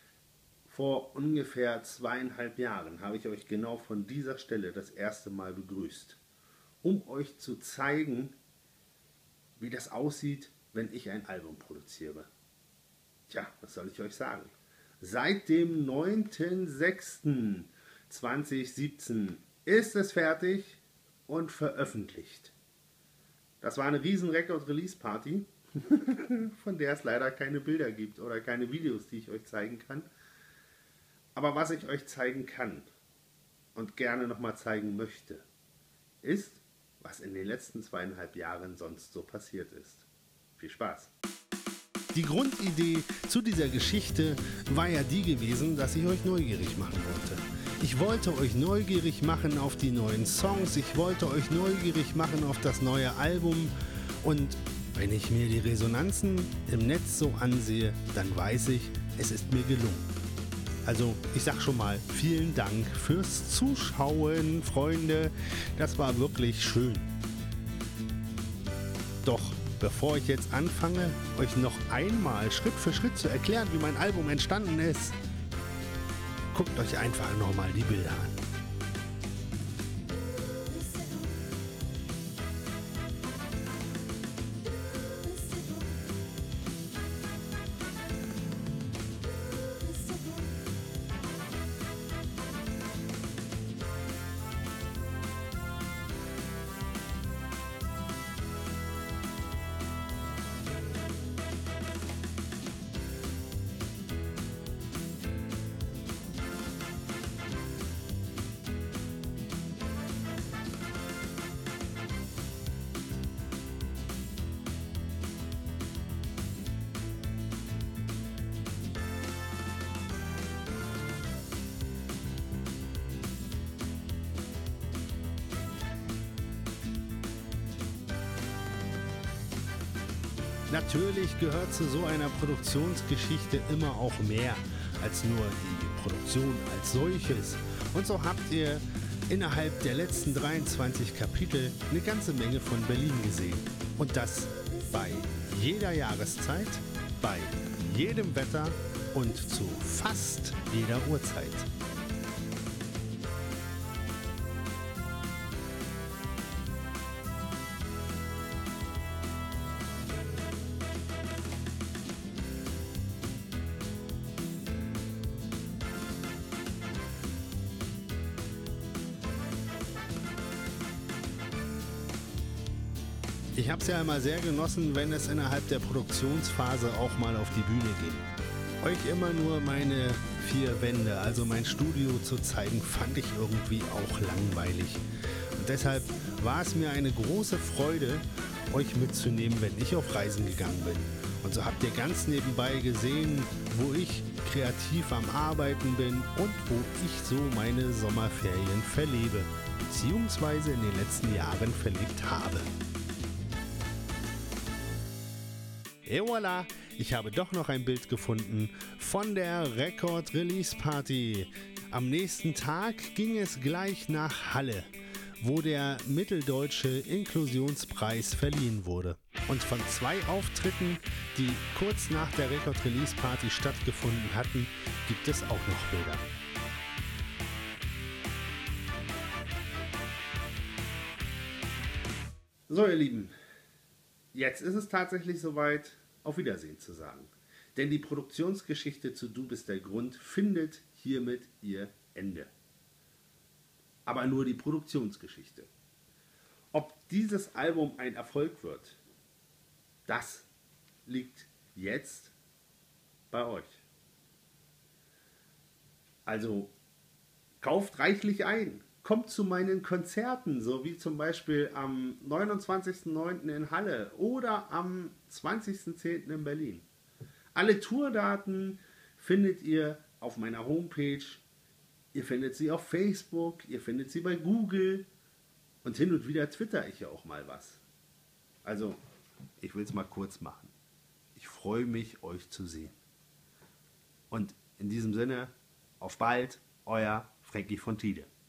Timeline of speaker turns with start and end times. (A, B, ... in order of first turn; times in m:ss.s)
0:00.7-0:06.2 A
0:06.8-0:08.4 A
0:09.6-0:12.3 A
0:13.3-0:22.6 A
0:23.6-0:30.1 A
0:31.4-0:32.9 A
0:33.8-0:35.5 A
0:36.2-0:41.1 A
0:42.1-1:00.1 A
1:00.8-1:07.1 A
1:09.2-1:15.2 A
1:16.5-1:18.4 A
2:10.7-2:31.7 A
2:53.6-2:58.2 A
2:58.8-3:05.0 A
3:05.6-3:22.7 A
3:26.0-3:46.3 A
3:52.7-3:53.3 A
3:54.3-4:02.5 A
4:04.1-4:05.7 A
4:06.7-4:09.0 A
4:10.1-4:10.5 A
4:11.0-4:12.4 A
4:13.3-4:13.8 A
4:16.3-4:16.7 A
4:17.6-4:26.9 A
4:27.6-4:31.4 A
4:32.1-4:35.1 A
4:35.8-4:37.8 A
4:38.6-4:39.0 A
4:39.6-4:40.7 A
4:41.4-4:43.0 A
4:44.3-4:48.3 A